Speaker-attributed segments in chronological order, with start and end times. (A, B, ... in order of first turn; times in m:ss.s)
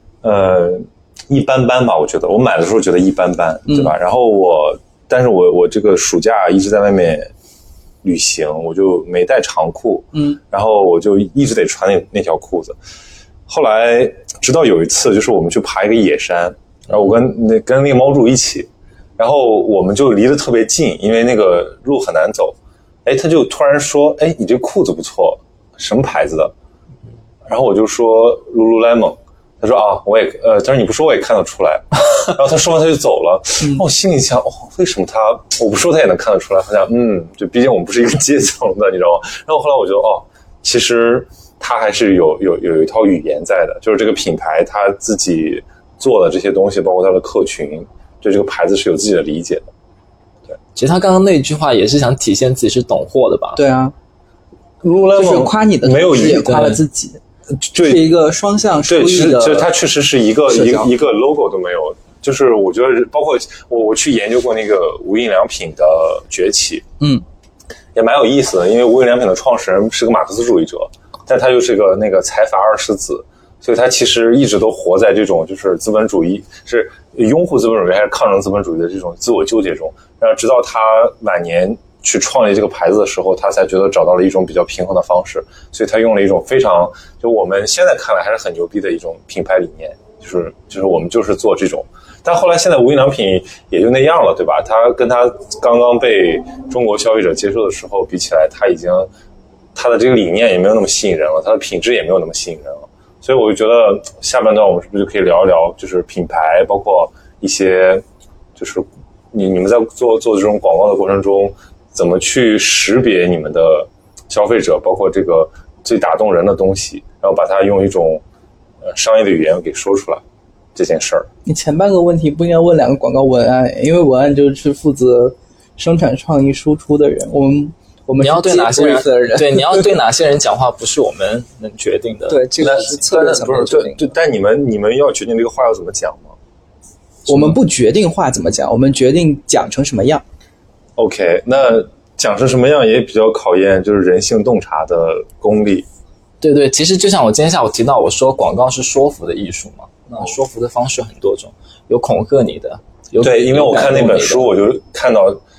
0:00.2-0:07.3 A
0:08.0-0:12.8 A
0:10.1-0:10.4 B
0:13.5-0:26.5 A
0:27.5-0:49.7 A
0:50.8-0:53.6 C
0:53.6-0:53.9 B
0:54.8-0:56.5 A
0:55.1-0:57.2 B
0:56.3-0:56.8 C
0:57.6-0:58.0 A
0:57.8-0:59.7 B
0:58.9-1:06.8 A
1:00.5-1:00.9 B
1:08.0-1:39.1 A
1:39.8-1:48.0 A
1:48.6-1:58.2 A
1:58.8-2:00.2 A
2:00.8-2:01.3 A
2:01.5-2:09.8 B
2:08.2-2:12.7 C
2:12.3-2:14.1 B
2:12.6-2:16.4 A
2:17.3-2:20.2 B
2:21.0-2:25.9 A
2:26.4-2:34.5 C
2:33.2-2:35.4 A